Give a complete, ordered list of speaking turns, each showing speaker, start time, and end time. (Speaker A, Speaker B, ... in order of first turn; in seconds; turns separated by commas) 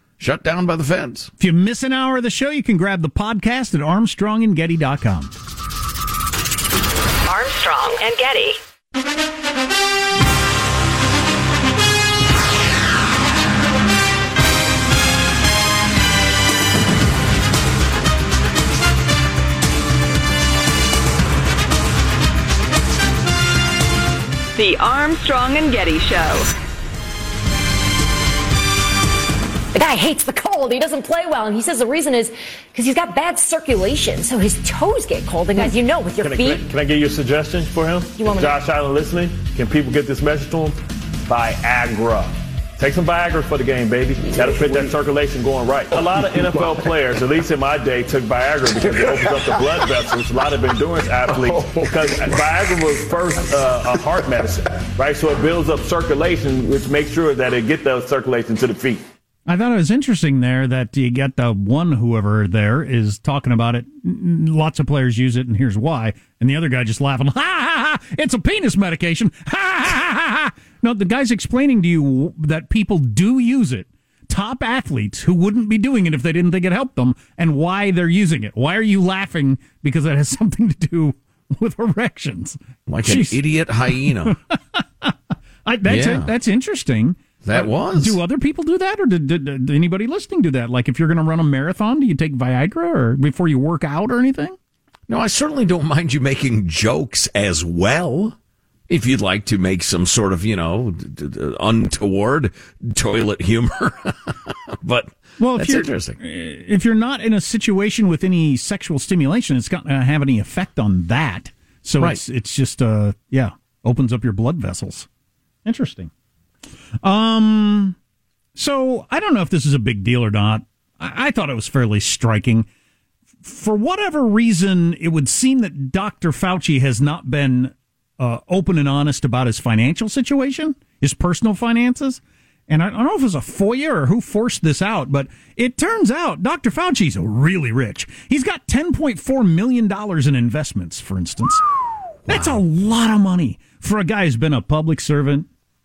Speaker A: 0.2-1.3, Speaker B: 1.4-5.3, Speaker C: 7.3-8.6, Speaker C: 24.6-26.5, Speaker D: 29.8-36.6, Speaker E: 36.2-59.0, Speaker D: 38.2-38.6, Speaker B: 59.5-85.1, Speaker A: 82.9-84.4, Speaker B: 85.7-94.5, Speaker A: 85.9-86.3, Speaker A: 87.4-88.2, Speaker A: 95.1-98.4, Speaker A: 98.9-106.2, Speaker B: 105.4-115.1, Speaker B: 115.7-116.1, Speaker B: 117.0-118.0, Speaker B: 118.6-122.7, Speaker B: 123.4-141.6, Speaker B: 142.3-145.5, Speaker A: 142.3-142.6